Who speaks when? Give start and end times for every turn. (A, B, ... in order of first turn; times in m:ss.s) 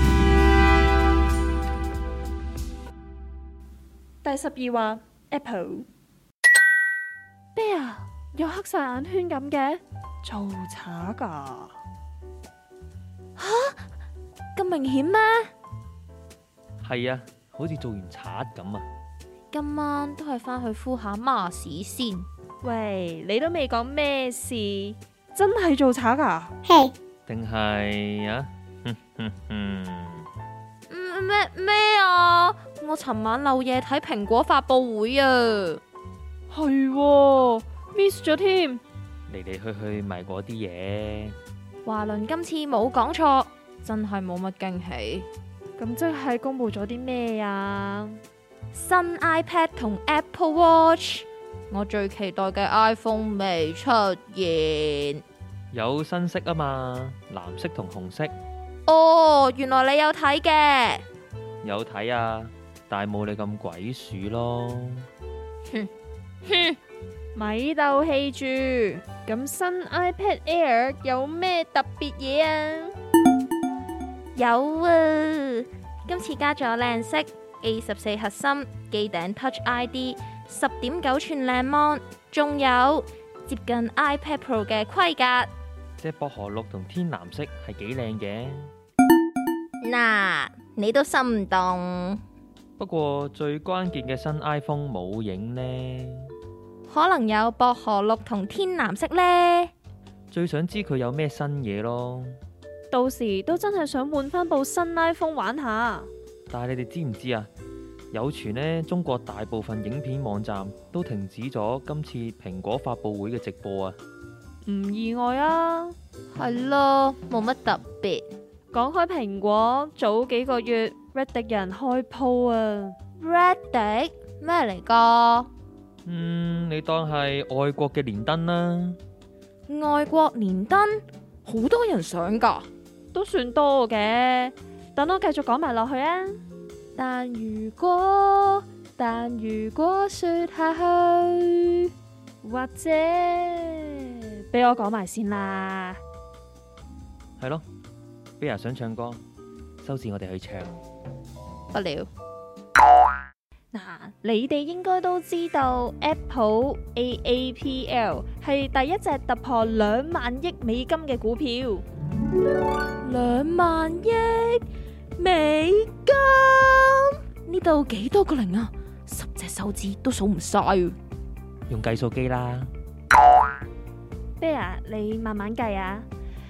0:04.2-0:05.9 A
0:07.5-0:11.7 A
0:13.4-0:13.8 B
0:14.6-0:15.5 B
0:16.8-0:18.8 C
0:19.5-0:22.3 B
0:22.6-0:26.5 A
0:27.3-0:30.3 C
0:30.9-0:35.8 B
0:36.5-0:38.8 A
0:39.3-0:41.4 C
0:41.8-0:45.3 B
0:45.8-0:48.2 A
0:48.7-0:55.2 B
0:55.7-0:58.3 C
0:58.9-1:01.0 B
1:01.6-1:05.1 C
1:06.4-1:06.8 B
1:07.3-1:12.9 A
1:14.3-1:25.5 B
1:26.0-1:28.7 C
1:29.8-1:32.2 B
1:32.8-1:36.3 C
1:36.9-1:39.7 B
1:40.3-1:42.4 C
1:42.9-1:46.1 A
1:46.5-1:47.5 C
1:48.1-1:54.0 C
1:54.6-1:55.9 A
1:56.3-1:58.2 B
1:58.7-2:03.0 A
2:03.2-2:05.5 B
2:06.0-2:09.0 C
2:09.7-2:12.7 B
2:13.1-2:16.4 A
2:17.0-2:21.9 B
2:22.4-2:26.0 A
2:27.4-2:27.6 C
2:28.4-2:29.2 C
2:29.8-2:30.8 C
2:31.7-2:32.1 B
2:33.7-2:41.8 A
2:43.0-2:44.6 B
2:45.2-2:51.0 B
2:51.7-2:52.7 C
2:54.4-2:56.1 A